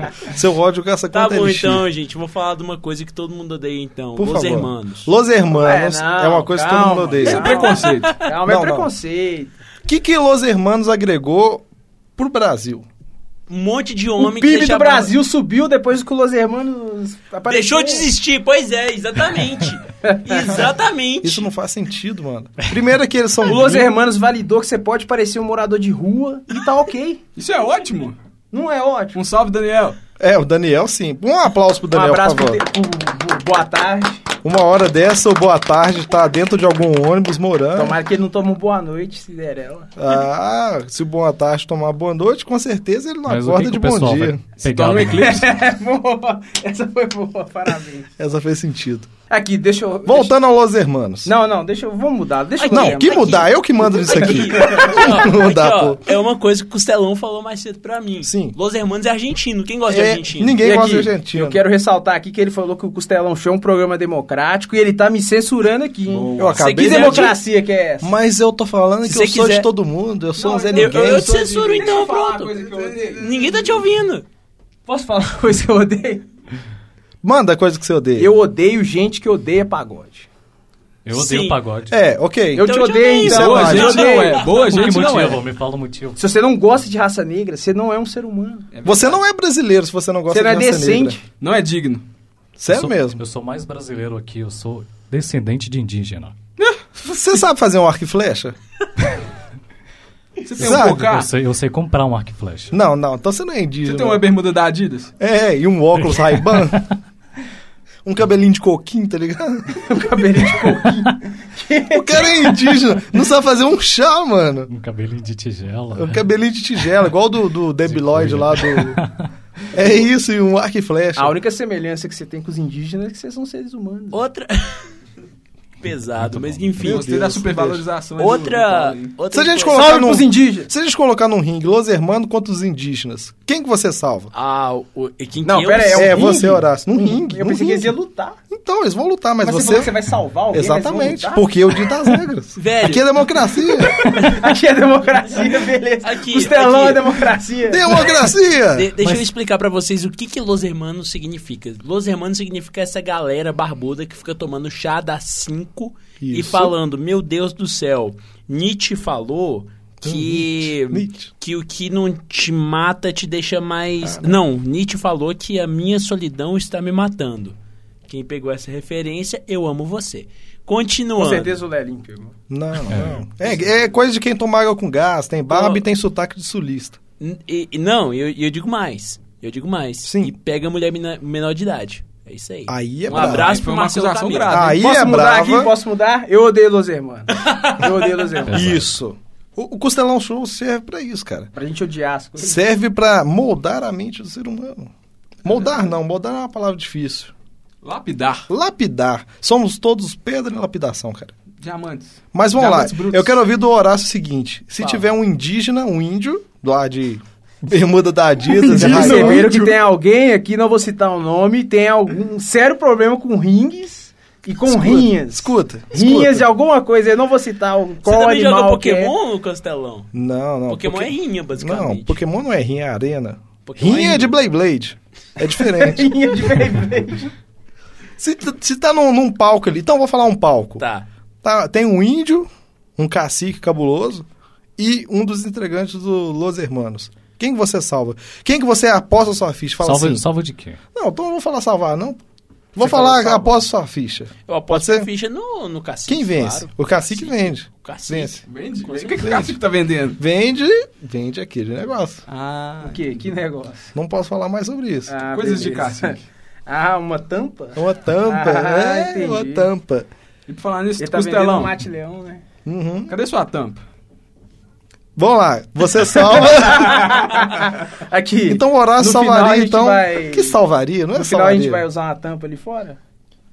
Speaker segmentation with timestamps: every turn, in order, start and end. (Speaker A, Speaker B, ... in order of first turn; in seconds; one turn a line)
Speaker A: 0.2-1.9
Speaker B: 1.1-5.1
Speaker A: 4.2-7.6
Speaker C: 5.5-9.5
Speaker B: 7.2-8.2
Speaker D: 7.3-8.2
Speaker A: 8.4-8.9
Speaker A: 9.9-11.7
Speaker A: 12.2-12.9
Speaker B: 13.5-15.1
Speaker C: 14.2-18.1
Speaker B: 17.5-21.5
Speaker C: 20.0-20.5
Speaker A: 20.4-23.9
Speaker C: 23.4-27.2
Speaker D: 27.4-28.2
Speaker C: 28.5-29.2
Speaker D: 29.1-30.0
Speaker A: 30.2-32.6
Speaker C: 31.9-34.2
Speaker A: 34.4-38.0
Speaker C: 37.8-39.9
Speaker A: 40.0-44.4
Speaker E: 43.3-45.5
Speaker D: 44.6-45.5
Speaker C: 45.0-48.1
Speaker A: 48.2-49.1
Speaker C: 49.3-50.3
Speaker A: 50.1-51.3
Speaker C: 51.2-55.2
Speaker B: 52.6-60.6
Speaker A: 52.7-56.0
Speaker A: 58.2-58.6
Speaker A: 59.9-61.6
Speaker C: 60.6-68.1
Speaker D: 66.1-66.6
Speaker A: 66.4-67.4
Speaker B: 66.6-67.4
Speaker A: 68.0-71.5
Speaker B: 69.0-69.7
Speaker D: 70.4-73.7
Speaker B: 70.7-72.6
Speaker C: 71.3-73.3
Speaker B: 73.2-74.3
Speaker C: 74.9-76.3
Speaker A: 77.2-78.3
Speaker C: 78.2-80.3
Speaker E: 81.0-82.0
Speaker B: 81.1-81.6
Speaker A: 81.9-84.0
Speaker C: 82.5-85.2
Speaker B: 82.6-85.1
Speaker D: 83.3-85.4
Speaker E: 84.6-86.2
Speaker C: 86.2-88.7
Speaker D: 88.7-89.2
Speaker A: 88.8-91.2
Speaker C: 90.3-91.2
Speaker D: 91.4-92.1
Speaker A: 92.6-93.2
Speaker E: 92.7-96.3
Speaker D: 96.6-96.9
Speaker A: 97.0-98.6
Speaker D: 100.4-101.3
Speaker A: 100.6-101.1
Speaker E: 100.6-102.8
Speaker A: 102.7-104.2
Speaker D: 103.8-105.1
Speaker A: 105.2-106.8
Speaker E: 106.0-106.9
Speaker A: 108.0-109.8
Speaker C: 109.8-112.5
Speaker A: 111.9-114.7
Speaker E: 114.7-116.2
Speaker A: 115.9-119.0
Speaker E: 117.9-119.3
Speaker A: 119.7-121.3
Speaker C: 121.2-124.2
Speaker B: 124.1-124.9
Speaker B: 125.8-127.1
Speaker E: 126.2-126.9
Speaker A: 126.8-127.8
Speaker D: 126.8-129.1
Speaker B: 128.2-130.1
Speaker A: 129.3-134.3
Speaker C: 129.7-130.7
Speaker B: 134.3-136.2
Speaker C: 135.4-138.4
Speaker A: 135.9-137.9
Speaker A: 138.5-139.9
Speaker C: 139.4-141.5
Speaker A: 140.5-144.0
Speaker B: 142.6-143.1
Speaker C: 143.9-148.2
Speaker B: 146.0-147.2
Speaker A: 147.7-148.9
Speaker B: 148.7-167.6
Speaker A: 156.2-156.7
Speaker A: 160.0-161.3
Speaker A: 164.0-164.4
Speaker B: 168.1-171.5
Speaker C: 171.2-172.3
Speaker A: 172.5-177.0
Speaker E: 172.9-173.2
Speaker B: 175.5-175.8
Speaker B: 177.2-184.7
Speaker A: 180.0-180.3
Speaker A: 182.7-183.5
Speaker D: 183.1-184.8
Speaker A: 184.5-185.8
Speaker C: 184.8-188.7
Speaker B: 187.5-187.8
Speaker E: 188.5-188.9
Speaker A: 188.5-191.5
Speaker C: 191.6-192.6
Speaker A: 192.4-194.9
Speaker A: 195.4-197.3
Speaker D: 197.8-198.5
Speaker A: 198.5-201.3
Speaker D: 201.6-203.4
Speaker A: 202.3-209.8
Speaker C: 208.5-219.1
Speaker D: 208.8-209.5
Speaker A: 214.7-216.5
Speaker B: 218.1-220.1
Speaker A: 220.1-226.3
Speaker B: 220.7-222.2
Speaker B: 223.7-224.4
Speaker C: 225.7-227.3
Speaker A: 228.2-230.8
Speaker B: 230.8-231.1
Speaker A: 231.4-240.2
Speaker E: 239.8-240.8
Speaker A: 240.9-242.2
Speaker A: 242.7-245.1
Speaker B: 244.5-249.4
Speaker A: 246.1-248.4
Speaker D: 248.5-250.2
Speaker A: 249.2-249.6
Speaker A: 250.2-252.2
Speaker D: 252.3-253.1
Speaker C: 252.8-253.9
Speaker A: 253.9-255.1
Speaker C: 255.1-259.7
Speaker D: 255.3-256.2
Speaker A: 257.8-260.1
Speaker D: 260.5-261.8
Speaker C: 261.0-262.4
Speaker A: 262.6-263.1
Speaker D: 263.1-263.8
Speaker A: 265.2-267.2
Speaker C: 266.1-270.6
Speaker A: 268.5-271.9
Speaker C: 271.1-273.0